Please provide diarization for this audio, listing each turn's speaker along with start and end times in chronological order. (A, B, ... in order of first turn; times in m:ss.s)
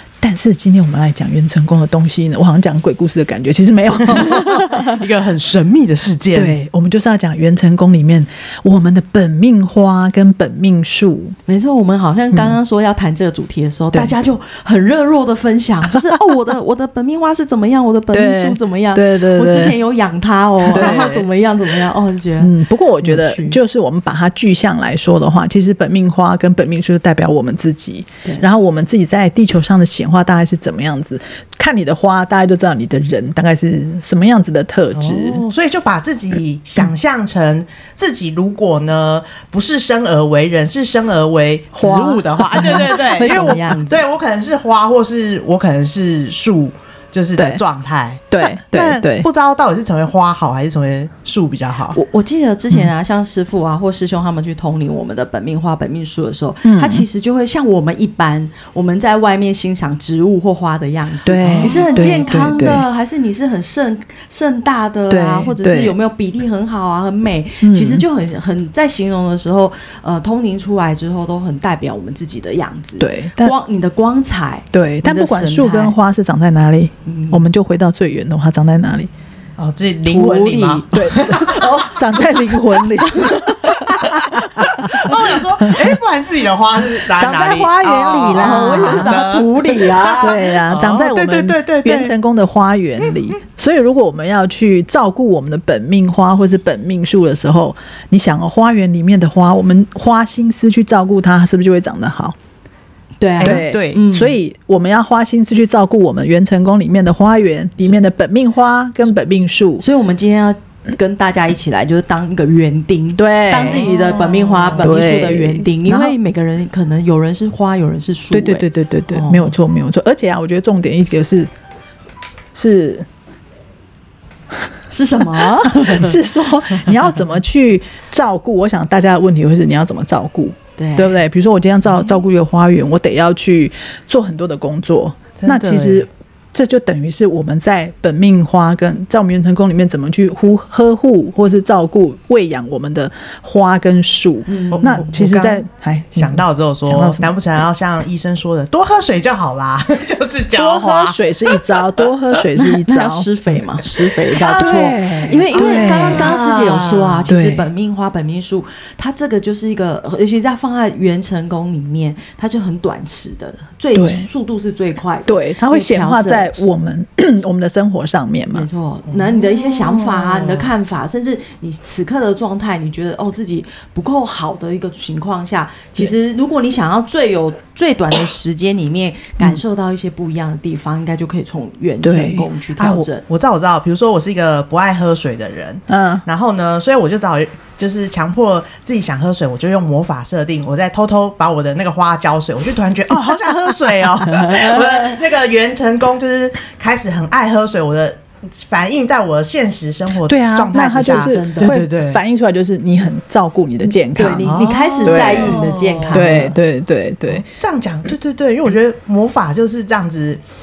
0:00.2-0:05.0 A
0:04.1-0:06.6 B
0:06.3-0:11.4 A
0:11.5-0:23.6 C
0:15.9-0:16.3 A
0:18.1-0:19.8 A
0:20.7-0:21.2 A
0:20.7-0:21.1 B
0:22.4-0:35.4 A
0:34.9-0:52.0 B
0:41.7-0:43.6 A
0:42.6-0:44.0 C
0:48.3-0:49.3 A
0:51.9-1:16.0 C
0:56.6-0:57.0 A
1:01.2-1:02.8 A
1:01.4-1:02.2 B
1:05.1-1:05.9 A
1:07.6-1:08.0 A
1:13.0-1:13.5 A
1:14.7-1:19.1 A
1:17.0-1:17.4 C
1:19.6-1:21.7 B
1:20.0-1:23.8 C
1:20.9-1:26.0 A
1:24.0-1:32.1 B
1:27.1-1:29.3 A
1:28.3-1:30.4 C
1:30.2-1:42.3 A
1:43.2-1:44.4 C
1:43.4-1:44.0 B
1:43.4-1:49.8 A
1:49.8-1:59.5 C
1:53.2-1:53.9 A
1:53.6-1:54.9 B
1:54.8-1:56.2 A
1:58.3-2:01.5 A
2:02.5-2:03.0 A
2:04.9-2:06.2 C
2:05.3-2:27.3 A
2:10.8-2:11.2 C
2:15.4-2:16.1 B
2:24.5-2:25.2 C
2:24.7-2:25.6 B
2:26.1-2:31.9 B
2:30.5-2:33.3 A
2:32.5-2:46.5 C
2:34.4-2:35.0 B
2:34.4-2:36.3 A
2:35.5-2:37.2 B
2:37.3-2:37.6 A
2:43.9-2:44.3 A
2:45.2-2:48.7 A
2:48.5-3:03.2 C
2:49.1-2:50.7 B
3:02.0-3:02.4 A
3:02.8-3:22.2 B
3:05.9-3:06.2 A
3:14.4-3:15.0 C
3:20.2-3:25.6 A
3:21.0-3:21.8 C
3:24.1-3:26.6 C
3:24.4-3:26.4 B
3:26.1-3:27.4 A
3:27.3-3:30.4 B